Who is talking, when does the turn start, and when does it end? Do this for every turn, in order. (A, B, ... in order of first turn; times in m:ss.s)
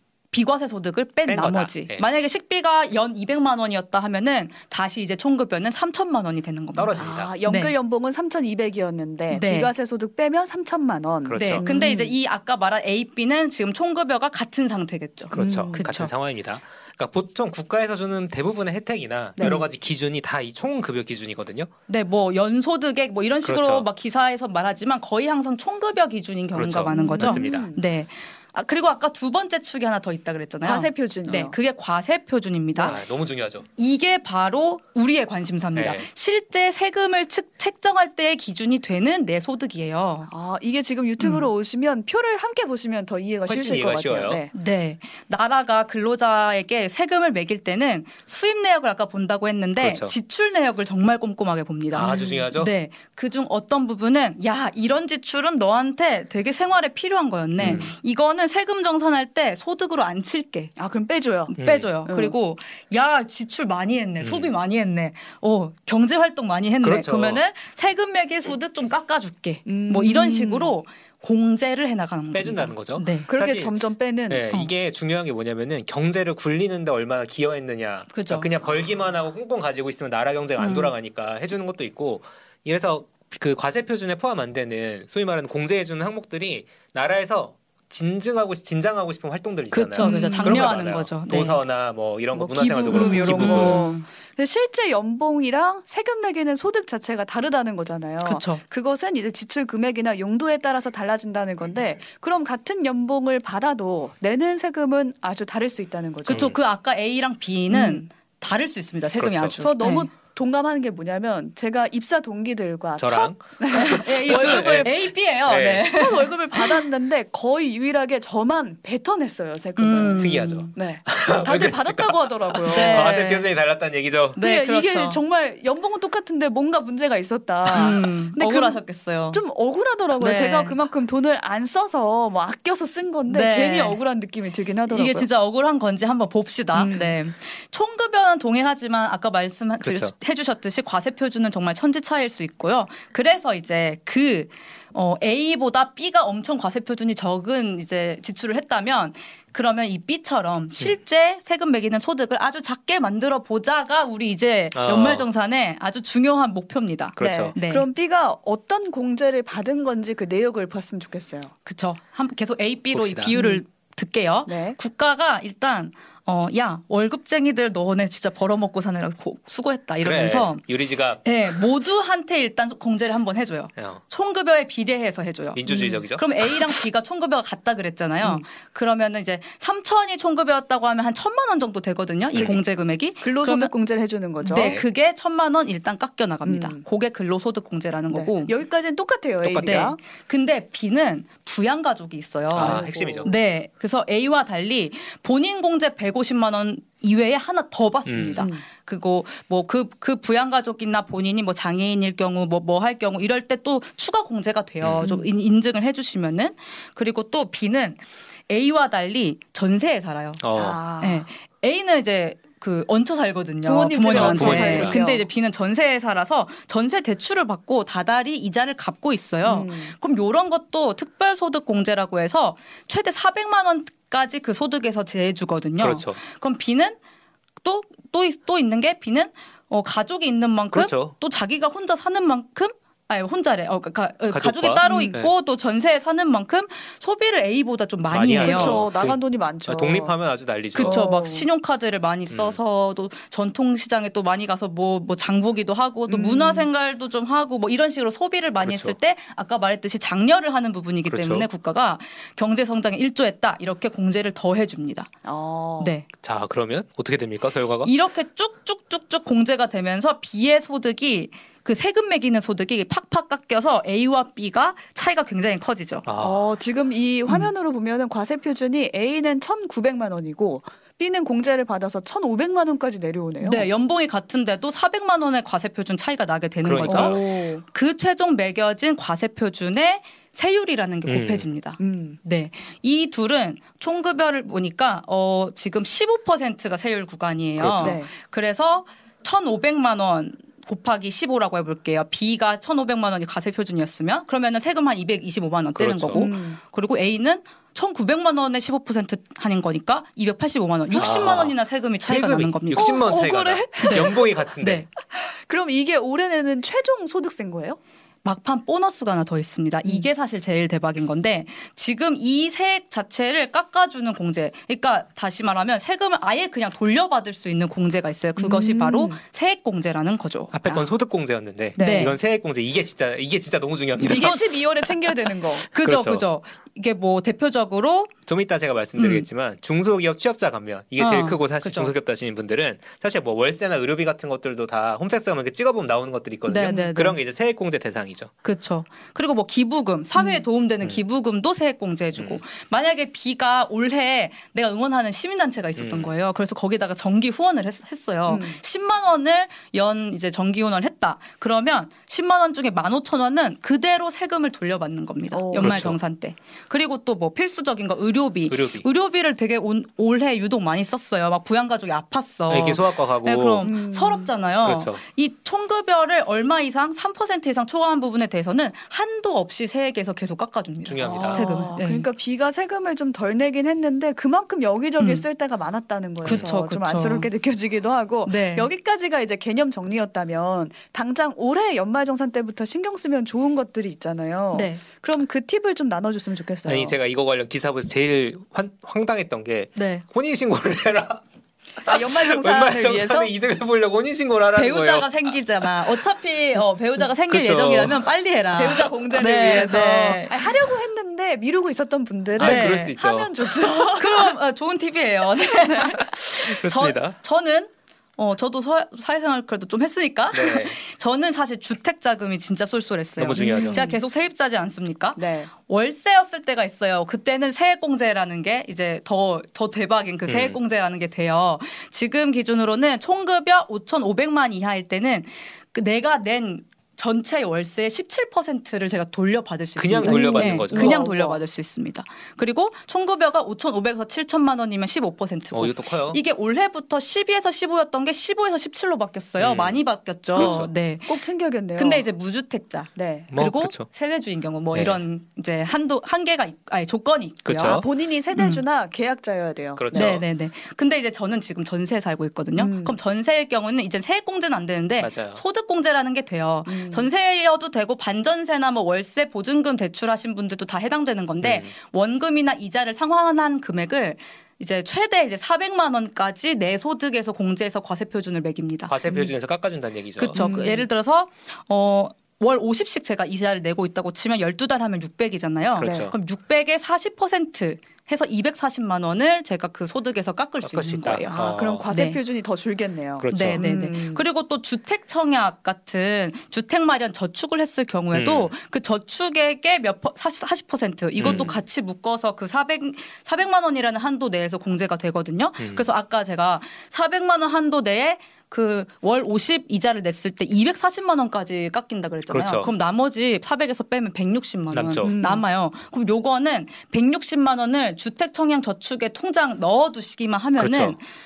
0:00.3-0:07.7 A
0:01.3-0:02.1 B
0:06.8-0:07.3 B
0:06.9-0:12.1 C
0:09.3-0:09.7 A
0:11.2-0:11.6 B
0:11.4-0:16.1 A
0:15.3-0:21.7 B
0:15.4-0:15.9 C
0:19.4-0:19.6 C
0:21.9-0:33.0 A
0:23.4-0:23.9 B
0:26.6-0:27.7 B
0:26.9-0:27.8 C
0:30.6-0:31.6 C
0:32.8-0:33.7 B
0:33.8-0:40.3 A
0:35.8-0:36.1 B
0:40.3-0:44.5 C
0:41.2-0:41.5 A
0:43.5-0:44.4 B
0:44.5-1:00.7 A
0:49.8-0:50.1 B
0:51.9-0:52.7 B
0:52.0-0:52.5 C
0:57.6-0:57.9 B
1:00.8-1:02.4 C
1:01.5-1:13.3 A
1:01.6-1:01.9 B
1:04.2-1:04.5 B
1:06.8-1:07.4 B
1:09.6-1:10.8 C
1:12.3-1:33.8 B
1:13.3-1:14.5 C
1:18.1-1:18.5 A
1:20.6-1:21.0 A
1:29.7-1:31.6 A
1:30.0-1:30.7 C
1:32.3-1:46.6 C
1:32.9-1:34.0 A
1:38.2-1:38.6 A
1:46.2-1:50.1 A
1:46.3-1:46.6 B
1:47.7-1:48.1 C
1:49.2-1:49.6 B
1:49.6-1:55.0 C
1:53.0-1:55.9 B
1:53.7-1:56.9 A
1:55.9-2:03.1 C
1:59.8-2:00.8 A
2:00.2-2:04.4 B
2:02.6-2:03.5 A
2:04.3-2:05.2 A
2:04.4-2:15.3 C
2:07.7-2:09.4 A
2:10.2-2:10.8 A
2:13.3-2:14.0 A
2:14.9-2:37.9 A
2:16.7-2:17.2 C
2:19.8-2:20.1 B
2:34.7-2:35.3 B
2:37.2-2:37.6 B
2:37.2-2:41.5 C
2:41.7-2:50.7 A
2:42.9-2:43.4 B
2:43.4-2:43.6 C
2:44.5-2:44.8 C
2:50.0-2:51.7 B
2:51.2-3:03.8 A
2:53.8-2:54.0 B
2:55.5-2:56.8 B
2:55.7-2:56.0 C
3:02.3-3:02.6 B
3:03.2-3:04.8 C
3:04.4-3:08.5 A
3:04.5-3:04.8 B
3:06.4-3:06.8 C
3:08.1-3:10.0 C
3:09.4-3:09.8 B
3:09.6-3:30.4 A
3:12.5-3:13.3 B
3:12.6-3:13.3 C
3:18.1-3:18.4 B
3:18.4-3:18.6 C
3:24.8-3:25.1 B
3:25.0-3:25.3 C
3:30.4-3:30.8 B
3:30.6-3:31.3 C
3:31.0-3:47.0 A
3:33.7-3:35.3 C
3:34.1-3:35.0 B
3:39.4-3:40.0 C
3:45.8-3:46.2 B
3:47.6-3:58.8 A
3:50.7-3:51.2 B
3:54.3-3:55.3 B
3:54.8-3:55.2 C
3:58.1-4:01.0 B
3:58.4-4:00.2 C
4:00.8-4:15.1 A
4:00.8-4:01.5 C
4:02.3-4:02.6 B
4:06.1-4:06.7 C
4:08.6-4:09.0 B
4:11.1-4:11.5 B
4:15.2-4:15.9 C
4:15.8-4:16.1 A
4:16.2-4:17.9 B
4:17.8-4:26.1 A
4:26.0-4:26.4 B
4:26.2-4:33.7 C
4:33.4-5:03.1 A
4:36.6-4:37.2 B
4:36.8-4:37.6 C
4:41.1-4:41.5 B
4:41.8-4:42.2 C
4:47.6-4:48.0 B
4:47.8-4:48.1 C
4:55.8-4:56.3 B
4:56.1-4:56.6 C
5:00.9-5:04.9 B
5:02.8-5:04.4 C
5:03.8-5:04.9 A
5:05.0-5:07.8 C
5:08.2-5:20.5 A
5:18.4-5:19.2 C
5:20.5-5:24.9 B
5:20.7-5:21.0 C
5:21.8-5:22.2 C
5:21.8-5:22.2 A
5:24.0-5:24.4 A
5:24.1-5:25.7 C
5:25.6-5:28.1 A
5:25.8-5:26.3 B
5:28.3-5:38.3 B
5:29.0-5:29.3 A
5:31.0-5:31.9 A
5:36.5-5:37.2 A
5:36.7-5:36.9 C
5:38.4-6:12.1 A
5:40.2-5:40.4 C
5:42.2-5:42.4 B
5:45.8-5:46.1 B
5:48.3-5:48.6 C
5:55.3-5:55.9 C
5:55.6-5:56.0 B
5:58.5-5:58.8 B
6:02.5-6:03.7 B
6:03.6-6:04.3 C
6:04.6-6:05.0 B
6:10.9-6:11.4 B
6:11.0-6:27.0 C
6:15.0-6:15.2 A
6:16.2-6:17.3 A
6:16.3-6:16.5 B
6:18.3-6:18.7 A
6:24.5-6:24.8 A
6:26.7-6:31.2 B
6:29.8-6:30.0 A
6:31.8-6:36.0 B
6:31.8-6:33.3 C
6:34.5-6:40.5 A
6:37.3-6:38.1 B
6:38.6-6:44.4 C
6:42.4-6:43.0 A
6:42.4-6:43.4 B
6:44.0-7:28.6 A
6:45.5-6:45.9 C
6:46.0-6:47.2 B
6:50.3-6:50.8 B
6:53.2-6:53.8 B
6:53.4-6:54.0 C
6:55.2-6:55.5 C
7:00.3-7:00.6 B
7:09.8-7:11.0 B
7:10.0-7:11.4 C
7:15.5-7:16.2 B
7:19.4-7:20.7 B
7:20.4-7:22.1 C
7:23.0-7:23.3 C
7:23.3-7:23.9 B
7:24.7-7:25.0 B
7:27.5-7:27.8 B
7:27.6-7:30.2 C
7:29.8-7:30.3 B
7:29.9-7:49.1 A
7:32.6-7:33.0 C
7:35.0-7:35.4 B
7:36.7-7:37.1 C
7:41.4-7:41.7 B
7:48.9-7:50.4 B
7:50.2-8:01.3 A
7:50.3-7:50.9 C
7:55.8-7:56.2 B
7:55.8-7:56.1 C
8:00.6-8:01.9 B
8:01.1-8:04.2 C
8:01.9-8:02.2 A
8:03.2-8:03.6 B
8:03.3-8:31.0 A
8:08.1-8:08.5 B
8:11.2-8:11.5 B
8:11.2-8:11.6 C
8:15.6-8:15.9 B
8:22.3-8:22.7 B
8:24.7-8:25.2 B
8:25.0-8:25.4 C
8:30.6-8:31.0 B